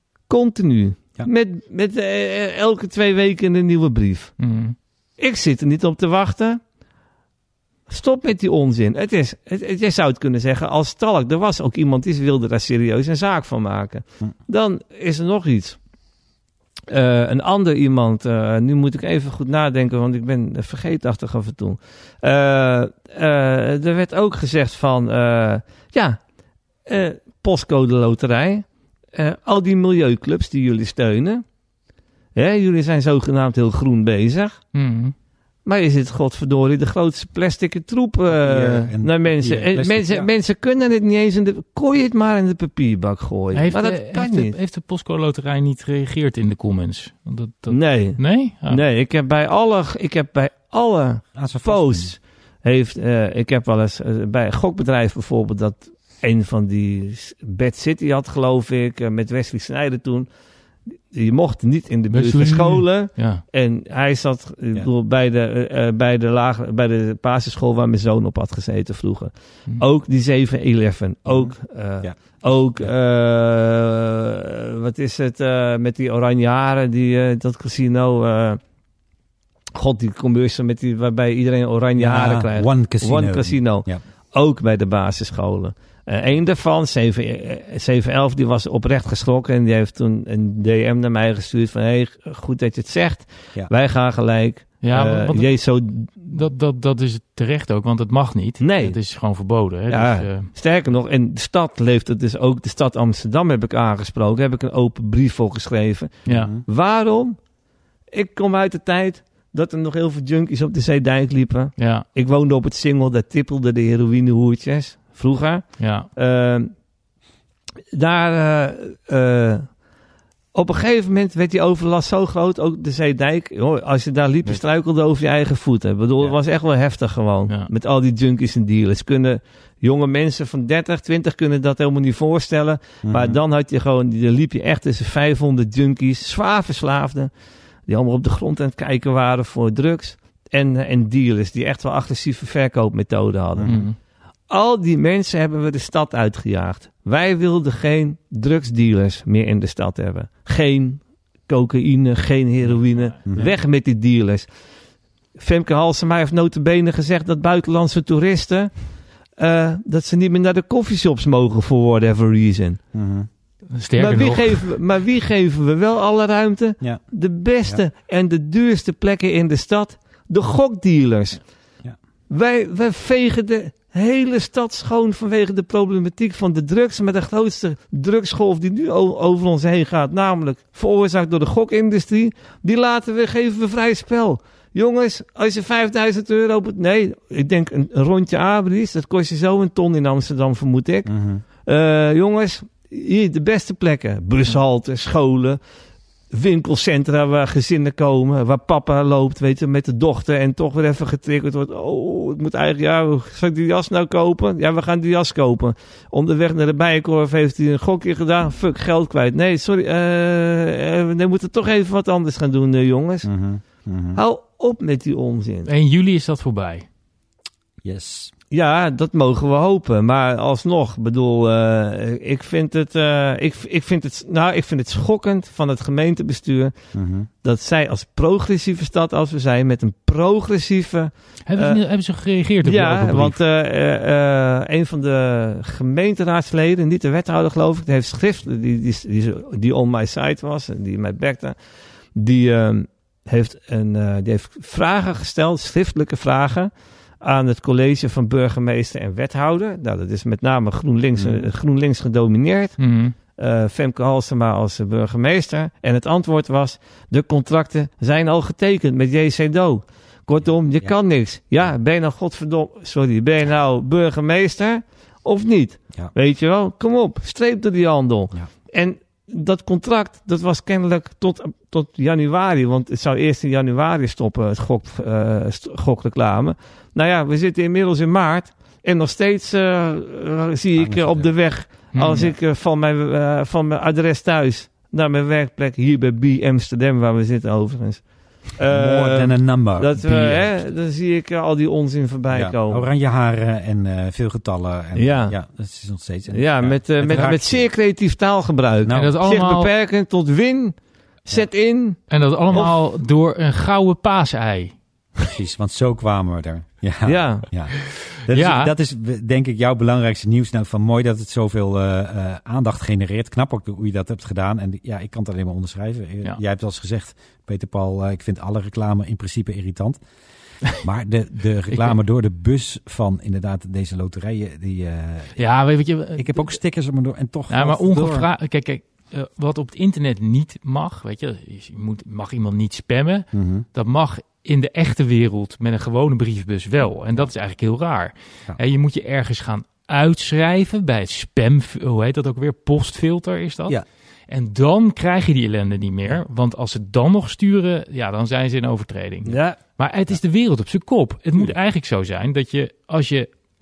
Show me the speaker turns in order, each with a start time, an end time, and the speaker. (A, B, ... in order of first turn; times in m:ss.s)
0:00.3-0:04.4 A
0:04.4-0:04.8 B
0:05.2-0:06.6 A
0:07.9-0:15.8 A
0:16.9-0:26.2 A
0:26.8-0:31.4 A
0:32.3-0:34.6 A
0:34.7-0:35.1 B
0:35.6-0:44.6 A
0:38.3-0:40.3 C
0:43.5-0:48.8 B
0:47.7-1:00.3 A
0:51.3-0:52.1 C
1:00.9-1:18.6 A
1:02.1-1:03.4 B
1:11.2-1:12.9 C
1:19.7-1:36.4 A
1:22.0-1:24.0 C
1:34.8-1:40.5 B
1:38.6-1:39.0 A
1:39.9-1:47.4 A
1:46.2-1:46.5 B
1:46.3-1:46.6 C
1:48.1-1:56.8 A
1:51.8-1:52.0 B
1:55.8-1:56.1 B
1:57.9-1:59.8 A
2:00.5-2:17.3 A
2:13.0-2:13.4 C
2:17.8-2:23.9 A
2:23.5-2:23.9 C
2:23.6-2:24.0 B
2:24.5-2:34.5 A
2:32.6-2:33.5 B
2:33.2-2:33.5 C
2:35.3-2:42.8 A
2:42.9-2:43.3 C
2:43.7-2:44.8 B
2:44.0-2:51.5 A
2:46.8-2:47.1 C
2:52.3-3:11.1 A
3:11.0-3:11.4 C
3:11.6-3:15.6 A
3:16.3-3:33.3 A
3:33.2-3:34.2 C
3:34.1-3:35.7 A
3:35.7-3:36.8 B
3:37.8-3:38.3 C
3:38.5-3:46.7 A
3:46.9-3:47.3 C
3:47.4-3:51.8 A
3:51.5-3:53.4 B
3:52.6-4:01.6 A
4:02.1-4:12.8 A
4:11.2-4:11.5 C
4:12.8-4:13.1 B
4:13.3-4:52.8 A
4:40.8-4:41.4 C
4:41.9-4:42.3 B
4:48.7-4:50.7 C
4:52.3-4:57.7 C
4:55.0-4:55.3 A
4:56.3-5:02.7 A
4:58.8-4:59.1 C
4:58.9-4:59.7 B
5:02.1-5:04.8 B
5:05.3-5:20.0 C
5:07.0-5:07.4 A
5:08.3-5:08.7 B
5:20.6-5:25.4 C
5:21.7-5:22.0 B
5:25.4-5:26.5 B
5:26.1-5:28.3 C
5:27.5-5:53.3 B
5:33.3-5:33.6 C
5:49.3-5:49.6 A